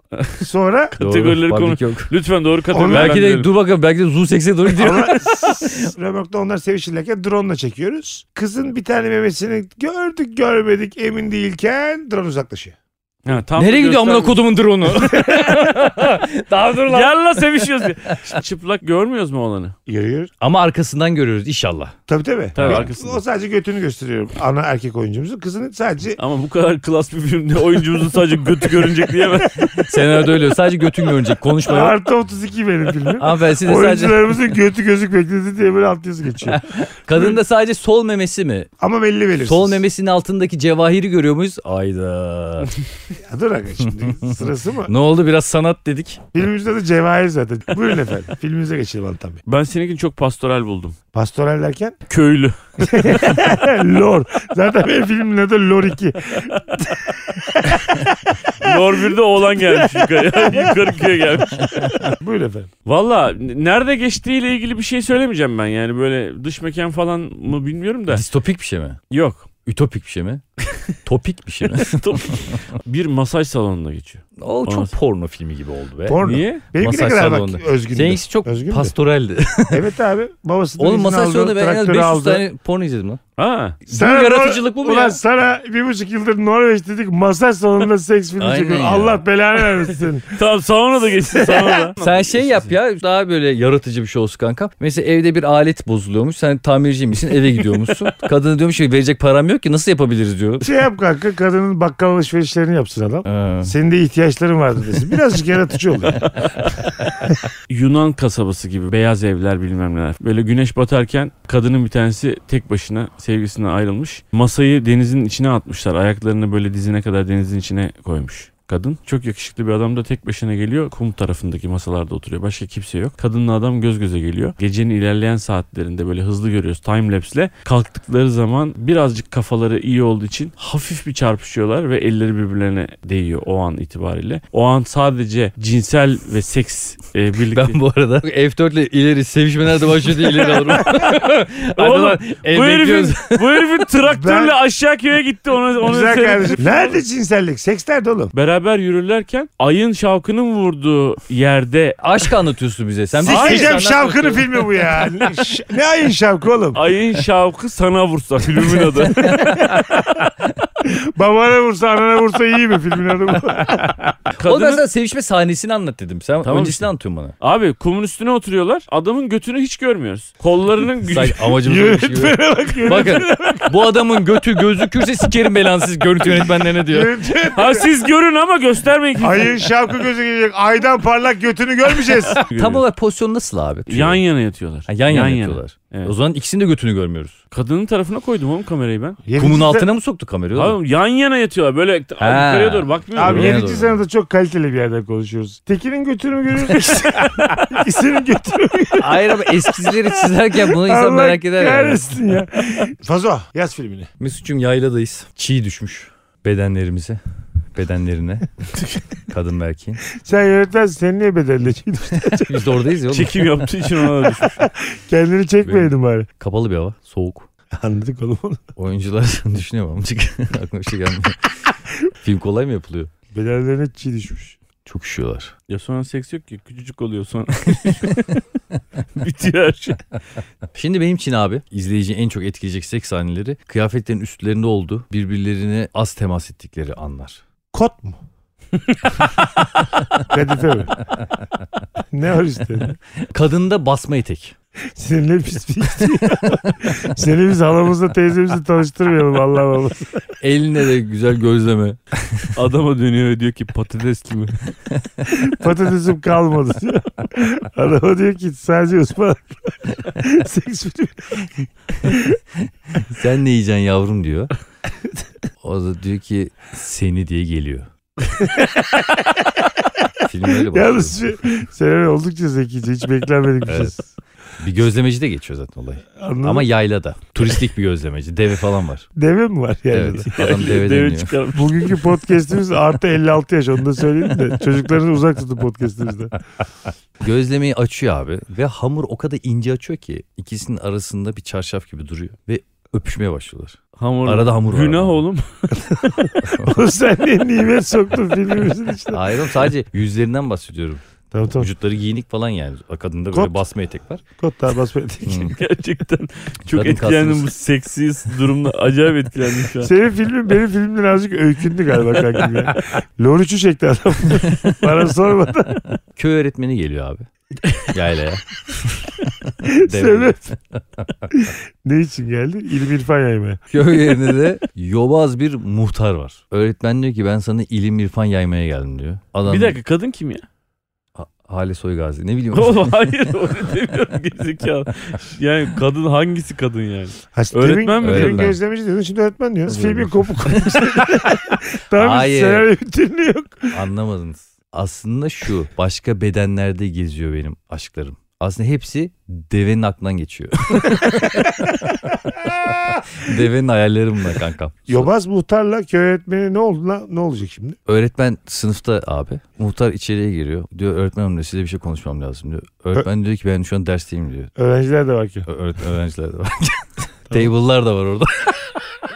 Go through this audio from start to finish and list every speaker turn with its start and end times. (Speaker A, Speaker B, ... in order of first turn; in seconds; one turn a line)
Speaker A: 0.1-3.5
Speaker B: 0.4-0.9
Speaker C: 1.0-2.1
Speaker B: 2.7-3.2
Speaker C: 2.9-5.9
Speaker B: 4.7-12.8
Speaker A: 13.2-14.4
Speaker C: 13.6-18.4
Speaker B: 15.0-15.5
Speaker A: 16.9-19.8
Speaker B: 19.9-20.3
Speaker C: 20.4-21.9
Speaker B: 22.1-26.2
Speaker A: 22.6-23.2
Speaker C: 22.6-22.9
Speaker A: 26.2-30.1
Speaker C: 29.6-32.0
Speaker B: 31.7-36.6
Speaker C: 33.2-34.4
Speaker C: 36.4-38.7
Speaker B: 38.8-39.8
Speaker C: 39.4-42.7
Speaker B: 43.2-44.9
Speaker C: 44.3-46.2
Speaker B: 46.3-49.4
Speaker A: 49.5-51.0
Speaker B: 51.1-52.0
Speaker A: 52.1-53.5
Speaker B: 52.8-58.8
Speaker A: 58.6-62.1
Speaker B: 59.7-61.0
Speaker C: 61.6-62.1
Speaker B: 62.2-62.7
Speaker A: 62.9-68.2
Speaker C: 68.1-69.0
Speaker A: 69.1-69.5
Speaker C: 69.7-70.4
Speaker C: 71.0-72.6
Speaker A: 71.7-74.9
Speaker C: 74.4-79.8
Speaker B: 76.1-78.9
Speaker A: 76.2-76.6
Speaker B: 79.7-82.4
Speaker C: 80.8-83.2
Speaker A: 83.4-83.8
Speaker C: 83.9-85.2
Speaker B: 83.9-90.3
Speaker C: 88.4-89.2
Speaker A: 90.3-92.7
Speaker B: 91.2-91.9
Speaker C: 92.0-100.7
Speaker B: 100.6-106.5
Speaker C: 103.3-103.8
Speaker A: 107.7-137.8
Speaker C: 137.5-143.8
Speaker A: 140.4-141.2
Speaker A: 141.8-147.0
Speaker B: 144.1-144.6
Speaker B: 145.8-148.3
Speaker A: 148.3-152.0
Speaker C: 152.0-154.7
Speaker B: 153.2-156.8
Speaker A: 153.2-153.8
Speaker A: 156.7-159.8
Speaker C: 158.6-160.1
Speaker B: 159.6-159.8
Speaker B: 160.8-164.2
Speaker C: 164.3-167.3
Speaker A: 164.4-164.8
Speaker A: 166.4-166.9
Speaker A: 167.4-171.4
Speaker C: 171.1-177.2
Speaker B: 171.6-173.8
Speaker B: 176.2-177.9
Speaker A: 177.5-179.7
Speaker B: 179.2-182.4
Speaker A: 182.4-182.8
Speaker C: 182.4-184.2
Speaker A: 183.9-186.1
Speaker C: 184.9-187.4
Speaker A: 187.5-189.2
Speaker B: 189.3-189.9
Speaker C: 189.4-190.8
Speaker A: 190.6-193.7
Speaker C: 192.2-194.0
Speaker B: 193.2-204.1
Speaker C: 199.0-202.1
Speaker C: 204.2-207.2
Speaker C: 207.8-208.5
Speaker C: 209.3-210.0
Speaker B: 210.2-212.7
Speaker C: 212.2-213.5
Speaker A: 213.1-214.7
Speaker B: 214.6-216.3
Speaker C: 215.6-217.5
Speaker B: 217.7-218.6
Speaker C: 218.8-221.5
Speaker C: 222.2-223.1
Speaker B: 223.3-224.6
Speaker C: 224.8-225.5
Speaker A: 225.7-228.4
Speaker A: 229.2-230.0
Speaker C: 230.7-237.4
Speaker B: 237.7-238.2
Speaker B: 240.2-241.1
Speaker B: 242.1-243.0
Speaker C: 243.3-244.6
Speaker B: 245.0-250.2
Speaker C: 250.4-252.5
Speaker A: 252.6-254.6
Speaker B: 255.3-261.5
Speaker B: 262.0-262.3
Speaker C: 262.9-264.5
Speaker C: 265.6-267.9
Speaker B: 268.3-269.4
Speaker C: 270.2-271.2
Speaker B: 270.6-274.0
Speaker C: 273.6-274.0
Speaker C: 274.6-279.1
Speaker B: 276.2-276.7
Speaker B: 279.2-280.8
Speaker C: 279.9-281.4
Speaker A: 280.3-282.1
Speaker B: 281.5-286.4
Speaker C: 287.2-295.2
Speaker A: 294.0-296.3
Speaker B: 296.5-299.2
Speaker C: 299.1-301.0
Speaker B: 301.3-301.7
Speaker C: 301.6-304.2
Speaker B: 304.4-305.5
Speaker C: 305.2-305.6
Speaker A: 305.5-309.9
Speaker C: 306.7-307.5
Speaker B: 309.8-315.9
Speaker C: 316.1-317.3
Speaker C: 317.8-318.4
Speaker B: 319.6-320.6
Speaker C: 319.7-320.4
Speaker B: 321.3-323.6
Speaker C: 323.7-329.8
Speaker A: 329.5-330.4
Speaker C: 331.2-333.3
Speaker A: 332.5-338.6
Speaker B: 337.4-343.7
Speaker C: 338.0-338.6
Speaker C: 339.7-340.8
Speaker C: 341.9-342.7
Speaker C: 343.7-351.7
Speaker B: 352.3-353.1
Speaker C: 353.2-355.1
Speaker B: 354.9-357.8
Speaker C: 357.9-364.5
Speaker B: 364.6-365.5
Speaker C: 365.5-368.8